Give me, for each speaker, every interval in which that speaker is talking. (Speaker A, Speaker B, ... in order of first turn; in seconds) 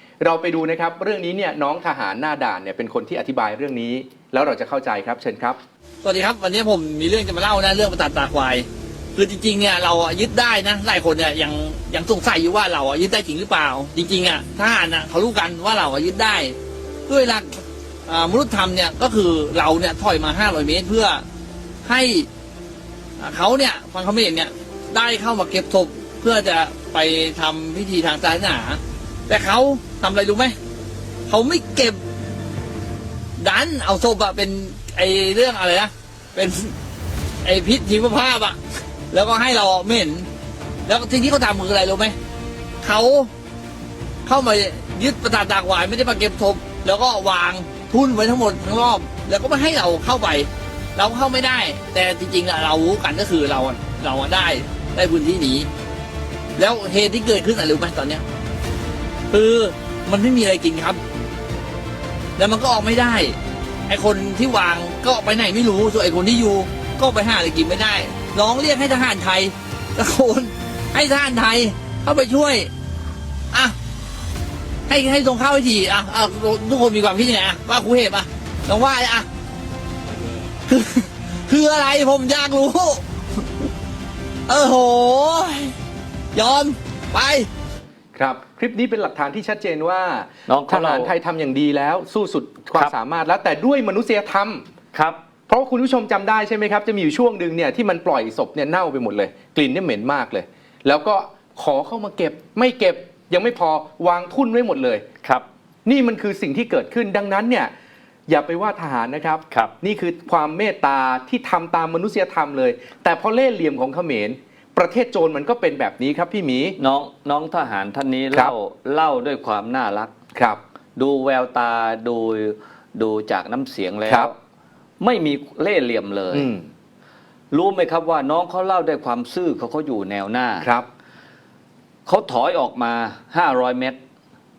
Speaker A: 0.2-5.6, 88.2-94.6, 95.5-105.0, 105.8-107.7, 108.3-116.8, 120.3-120.6, 124.1-124.3, 126.3-126.7, 130.6-130.9
Speaker B: 6.0-16.6, 17.1-21.2, 21.9-22.3, 23.2-30.6, 31.3-32.0, 33.4-36.7, 37.4-38.6, 39.1-40.3, 40.9-42.1, 42.8-43.3, 44.2-55.7, 56.6-58.2, 59.3-61.0, 62.4-63.4, 63.9-72.7, 74.9-79.3, 80.7-83.0, 84.5-85.7, 86.3-87.5
Speaker C: 90.5-91.1, 94.9-95.2, 116.8-120.1, 121.0-124.4, 125.0-126.5, 127.5-130.7, 132.1-134.0